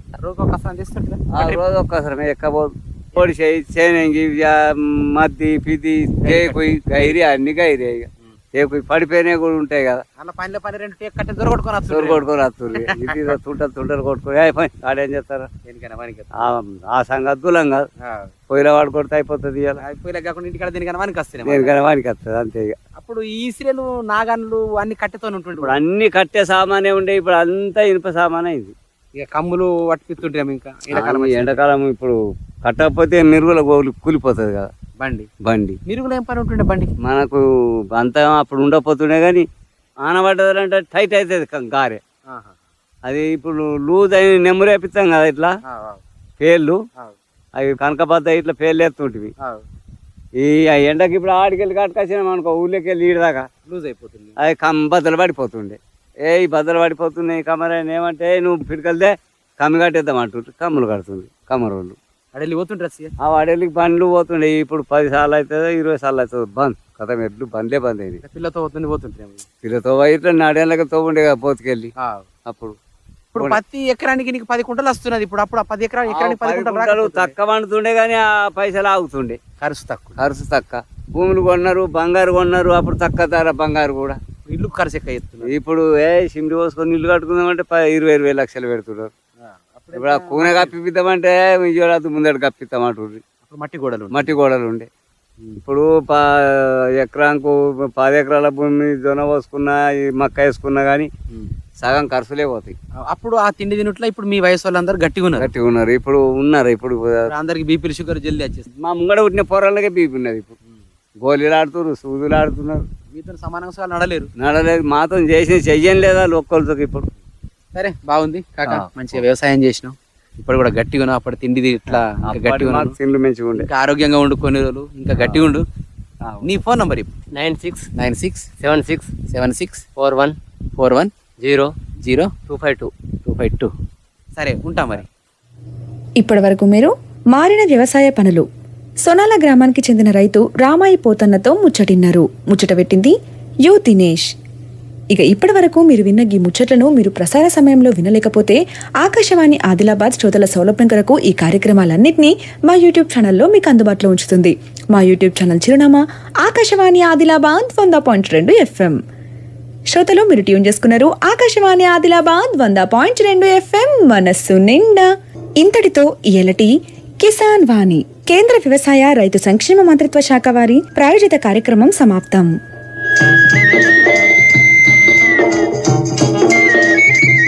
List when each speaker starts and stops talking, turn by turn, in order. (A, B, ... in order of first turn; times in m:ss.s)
0:00.2-0:01.6 A
0:01.3-0:10.0 B
0:06.2-0:07.2 A
0:10.2-0:13.4 A
0:11.9-0:15.5 B
0:15.6-0:16.5 A
0:16.4-0:17.9 B
0:18.0-0:18.3 A
0:18.5-0:19.8 B
0:19.8-0:21.8 A
0:21.4-0:22.8 B
0:23.0-0:25.8 A
0:25.6-0:28.7 B
0:29.2-0:31.6 A
0:30.9-0:34.7 B
0:35.0-0:35.3 A
0:35.4-0:35.8 B
0:35.9-0:36.9 A
0:37.0-0:39.5 B
0:40.0-0:42.0 B
0:42.3-0:42.5 A
0:43.1-0:45.6 B
0:45.7-0:46.0 A
0:46.4-0:46.8 B
0:47.6-0:49.3 B
0:50.4-0:53.5 B
0:53.7-0:54.4 A
0:54.4-1:02.0 B
1:02.3-1:03.1 A
1:03.2-1:08.2 B
1:08.2-1:09.4 A
1:09.6-1:11.9 B
1:12.0-1:12.3 A
1:12.5-1:12.8 B
1:13.3-1:17.3 A
1:16.1-1:19.4 B
1:19.6-1:20.2 A
1:20.2-1:24.2 B
1:24.5-1:25.5 A
1:25.4-1:29.1 B
1:29.4-1:30.7 A
1:29.9-1:33.2 B
1:33.4-1:34.4 A
1:34.1-1:34.9 B
1:35.6-1:41.1 B
1:41.8-1:42.8 B
1:43.1-1:45.5 A
1:45.4-1:47.3 B
1:47.3-1:48.7 A
1:48.8-1:50.6 B
1:51.2-1:52.9 B
1:53.1-1:54.3 A
1:54.4-1:57.1 B
1:57.8-2:03.0 A
1:58.7-1:59.2 B
2:01.9-2:03.7 B
2:03.5-2:05.6 A
2:05.2-2:05.5 B
2:06.4-2:07.1 A
2:07.3-2:07.9 C
2:08.0-2:08.6 A
2:08.6-2:09.2 C
2:09.1-2:10.1 A
2:10.0-2:10.4 C
2:10.8-2:12.4 A
2:12.5-2:12.9 C
2:13.3-2:13.7 A
2:14.4-2:15.1 A
2:16.2-2:18.4 D
2:19.0-2:24.3 D
2:25.1-2:39.0 D
2:39.9-2:52.5 D